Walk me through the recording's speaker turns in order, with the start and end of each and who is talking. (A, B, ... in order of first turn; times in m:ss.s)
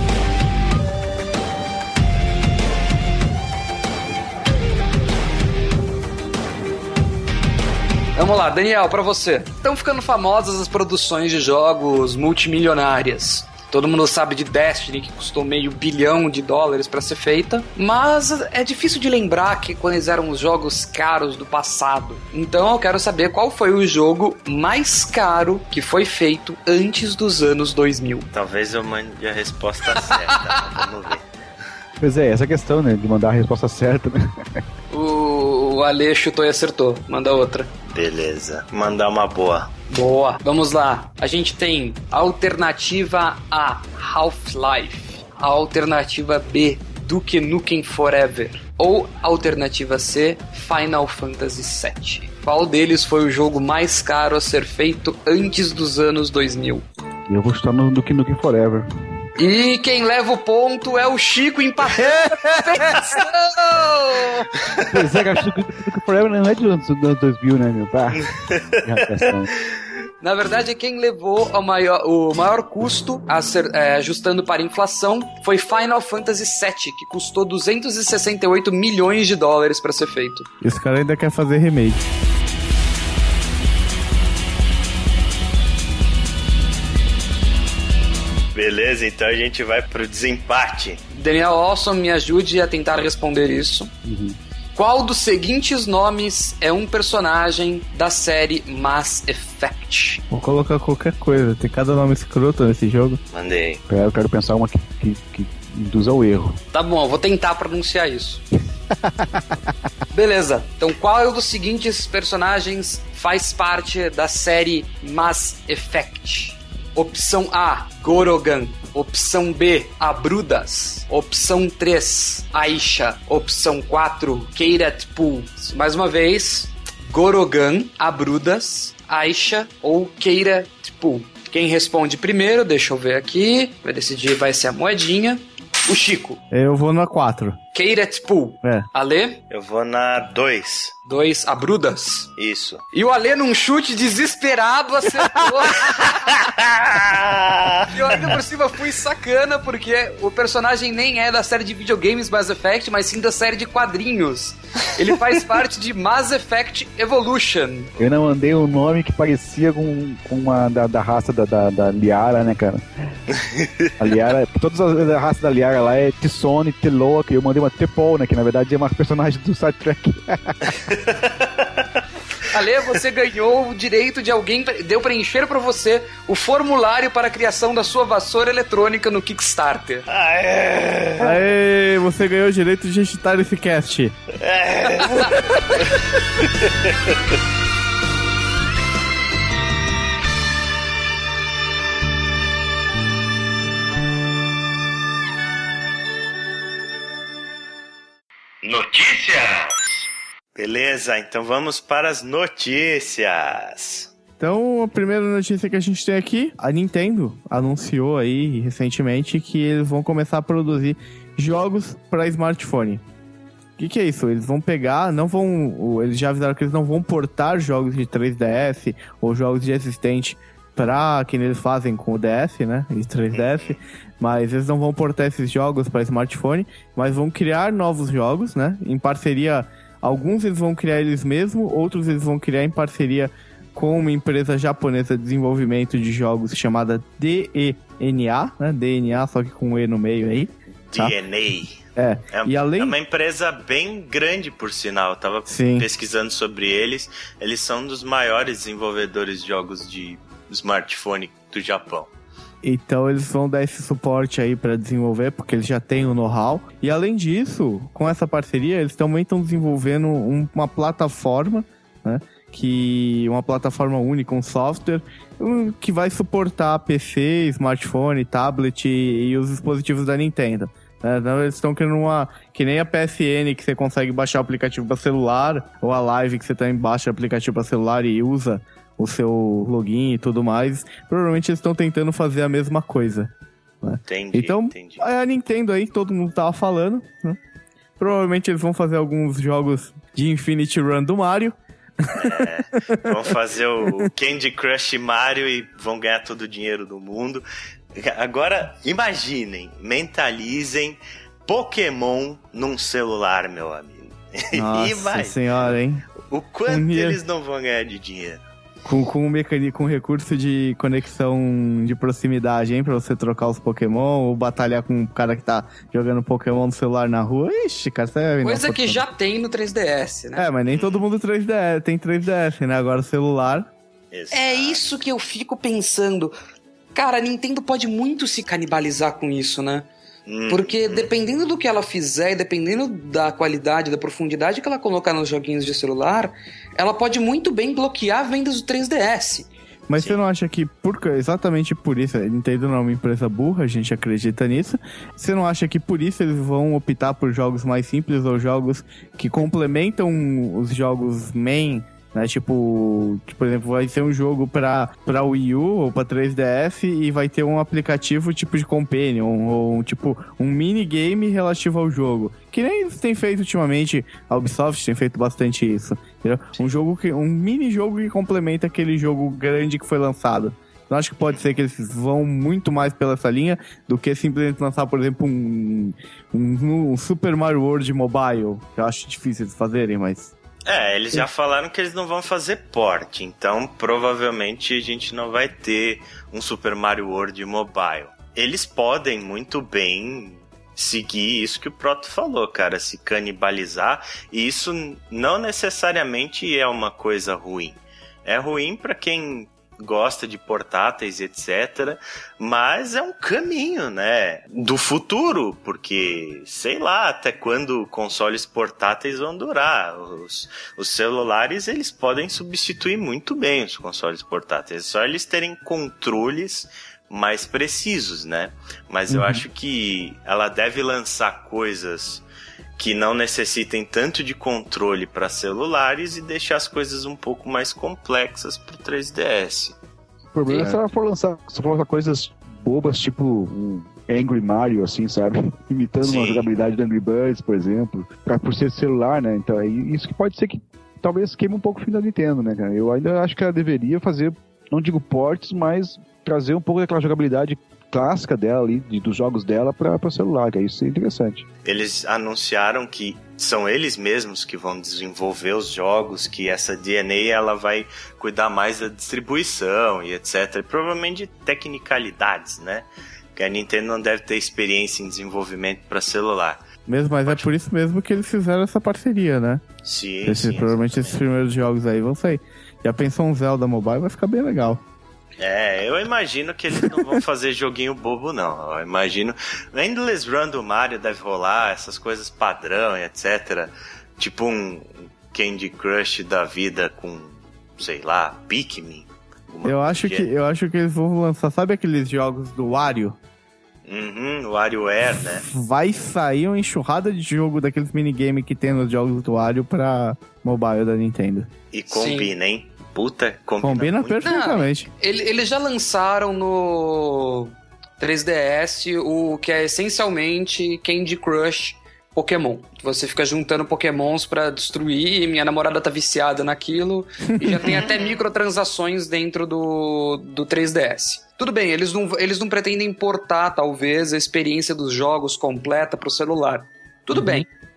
0:08.1-0:28.3 A
0:28.3-0:31.2 B
0:29.9-0:30.8 A
0:32.0-0:34.6 C
0:34.9-0:37.7 A
0:37.9-0:39.7 B
0:39.9-0:56.8 A
0:57.3-0:58.8 C
0:59.4-1:04.5 A
1:04.8-1:09.5 C
1:08.2-1:09.0 B
1:10.2-1:20.5 A
1:20.6-1:22.0 D
1:28.5-1:31.0 B
1:31.1-1:33.9 A
1:34.0-1:34.4 C
1:34.7-1:40.2 A
1:40.3-1:43.2 D
1:43.3-1:43.8 B
1:43.9-1:46.6 C
1:46.7-1:48.4 A
1:49.0-1:49.4 C
1:50.1-2:16.4 A
2:16.5-2:17.6 D
2:17.7-2:19.4 A
2:19.5-2:20.9 B
2:21.0-2:22.3 A
2:22.4-2:22.8 B
2:22.9-2:26.3 A
2:26.1-2:27.9 B
2:27.8-2:37.9 A
2:38.0-2:42.8 C
2:43.3-2:44.0 B
2:44.0-2:50.8 C
2:50.9-2:51.9 B
2:52.5-3:00.1 A
3:00.1-3:01.4 B
3:01.2-3:04.2 D
3:04.4-3:05.9 B
3:04.9-3:05.4 A
3:06.4-3:07.1 B
3:18.6-3:24.1 B
3:24.4-3:33.0 D
3:33.8-4:01.1 D
3:43.3-3:43.8 B
4:00.9-4:12.1 B
4:02.0-4:03.0 D
4:05.5-4:05.9 D
4:12.6-4:43.3 D
4:43.8-4:47.4 D
4:44.1-4:45.1 B
4:48.0-4:53.3 D
4:52.1-4:57.4 B
4:57.9-5:05.5 B
5:04.5-5:06.1 D
5:06.3-5:08.4 B
5:06.7-5:07.2 D
5:08.8-5:19.0 D
5:18.4-5:20.5 A
5:20.4-5:23.7 D
5:20.7-5:21.1 B
5:24.1-5:24.8 B
5:24.3-5:26.3 A
5:26.9-5:29.9 A
5:30.2-5:31.1 B
5:30.5-5:39.5 A
5:39.9-6:20.3 D
6:20.6-7:02.2 B
6:59.1-6:59.4 D
7:02.8-7:09.7 B
7:10.3-7:31.4 C
7:10.5-7:10.7 A
7:16.0-7:16.5 B
7:31.6-7:46.6 B
7:46.9-7:49.6 D
7:49.8-7:51.2 B
7:50.2-7:54.8 D
7:55.4-8:10.3 B
7:56.8-7:57.2 D
8:09.6-8:13.2 D
8:13.8-8:15.5 B
8:15.1-8:21.5 D
8:21.7-8:24.3 B
8:21.9-8:22.3 A
8:23.6-8:24.9 D
8:24.2-8:47.5 A
8:37.4-8:37.7 D
8:37.8-8:38.1 B